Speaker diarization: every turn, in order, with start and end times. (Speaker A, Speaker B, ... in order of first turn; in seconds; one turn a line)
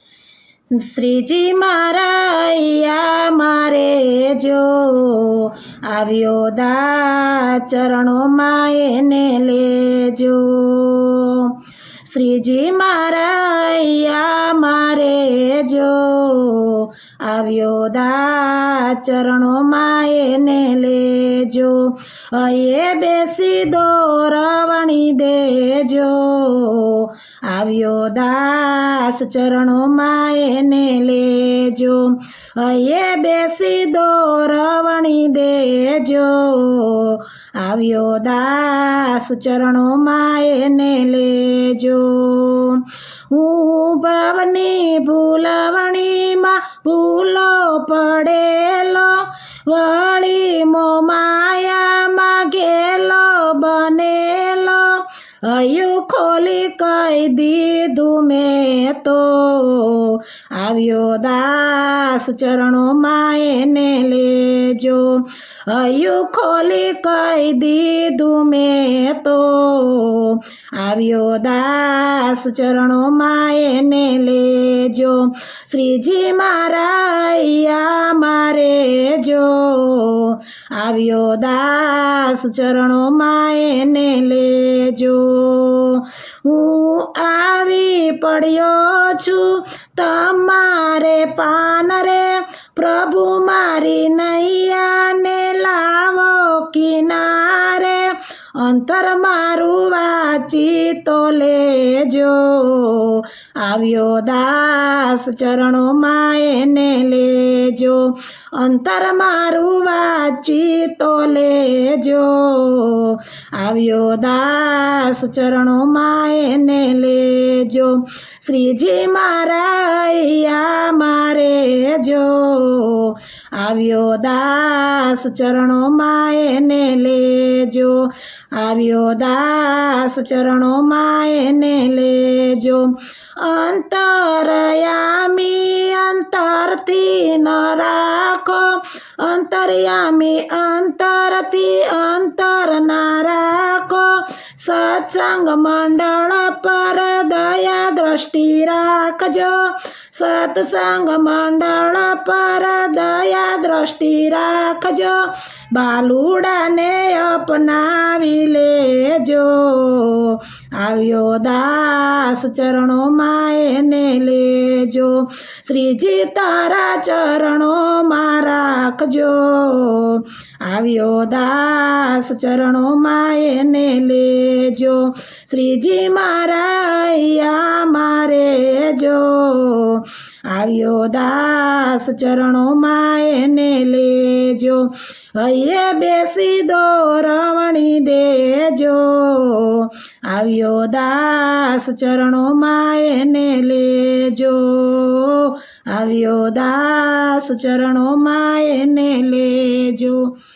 Speaker A: 0.7-200.3